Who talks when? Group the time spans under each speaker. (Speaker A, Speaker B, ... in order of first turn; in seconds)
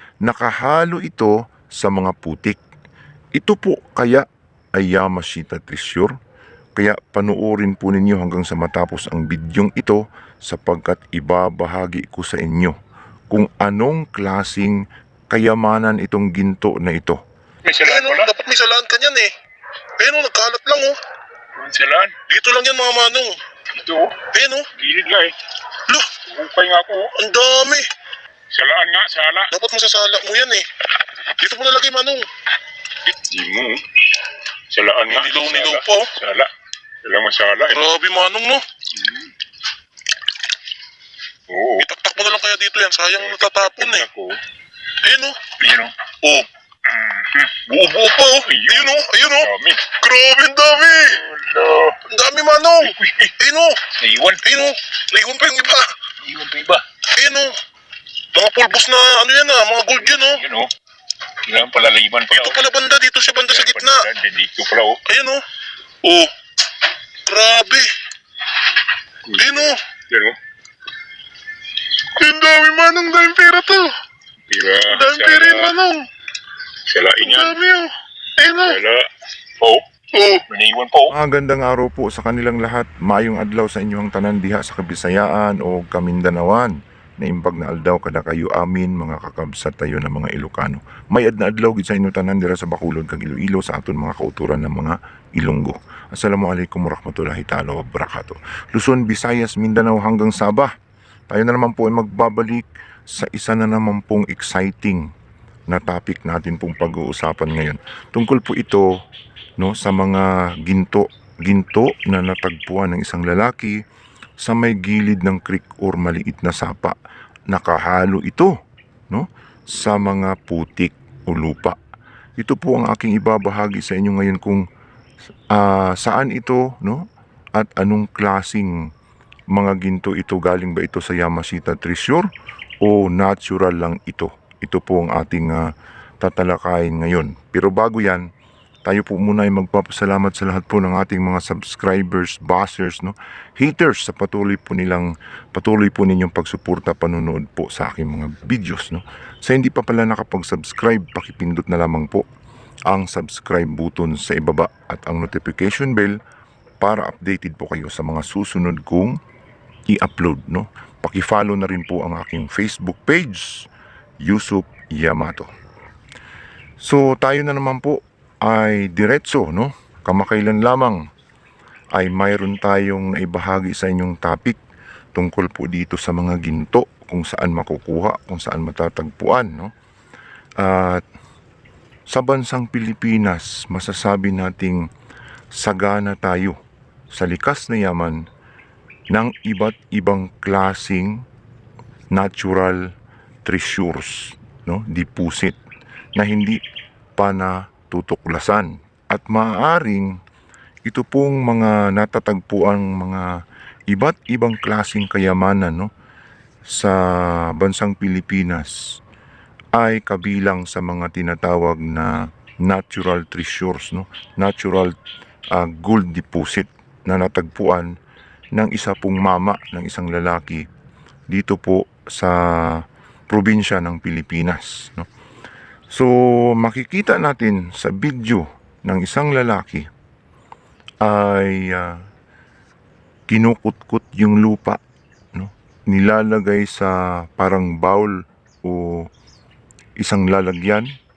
Speaker A: 0.2-2.6, 3.3-6.2, 6.8-12.8, 13.3-17.2, 81.1-100.7, 101.3-105.1, 105.7-108.9, 109.6-113.8, 114.4-117.0, 117.5-118.5, 119.1-121.8, 122.4-124.6, 125.5-128.8, 129.5-132.3, 132.8-135.7, 136.2-138.3, 138.8-152.2, 152.9-156.2, 156.8-159.2, 159.9-163.7, 164.2-165.5, 166.8-171.0, 171.9-174.6, 175.1-179.7, 180.6-181.0, 182.1-184.9, 185.5-186.6, 187.1-188.2, 189.1-191.2, 192.1-192.9, 193.4-195.6, 196.2-196.6, 197.2-200.2, 200.8-203.3, 203.9-205.9, 206.7-209.0, 209.7-214.9, 215.5-217.9, 218.5-220.7, 221.3-225.1, 225.9-229.9, 231.0-232.0, 233.3-234.8, 235.3-239.1, 240.0-240.9
Speaker B: 17.6-18.3, 21.5-22.2, 23.7-24.2, 24.8-25.4, 26.2-27.1, 28.5-29.5, 33.2-33.8, 34.7-36.5, 37.0-37.9, 38.9-39.3, 41.5-41.9, 43.2-44.4, 45.6-46.0, 46.9-47.6, 48.4-49.9, 51.0-52.0, 52.8-53.3, 53.9-54.6, 56.2-56.8, 60.1-60.7, 61.4-62.6, 63.5-65.0, 69.2-70.4, 74.5-75.7, 76.8-77.6, 78.6-79.1, 80.5-81.2
Speaker C: 17.8-19.3, 20.0-21.0, 22.3-23.4, 24.3-24.7, 27.1-27.9, 29.5-30.7, 31.3-32.3, 35.1-36.1, 37.7-38.6, 41.8-44.1, 45.0-45.5, 46.2-46.5, 47.6-51.2, 52.1-53.8, 54.4-56.0, 57.1-57.6, 58.3-60.4, 62.3-64.0, 65.0-65.4, 66.0-66.3, 67.3-67.9, 69.4-69.8, 72.2-73.9, 74.9-76.1, 77.2-78.8, 80.1-80.4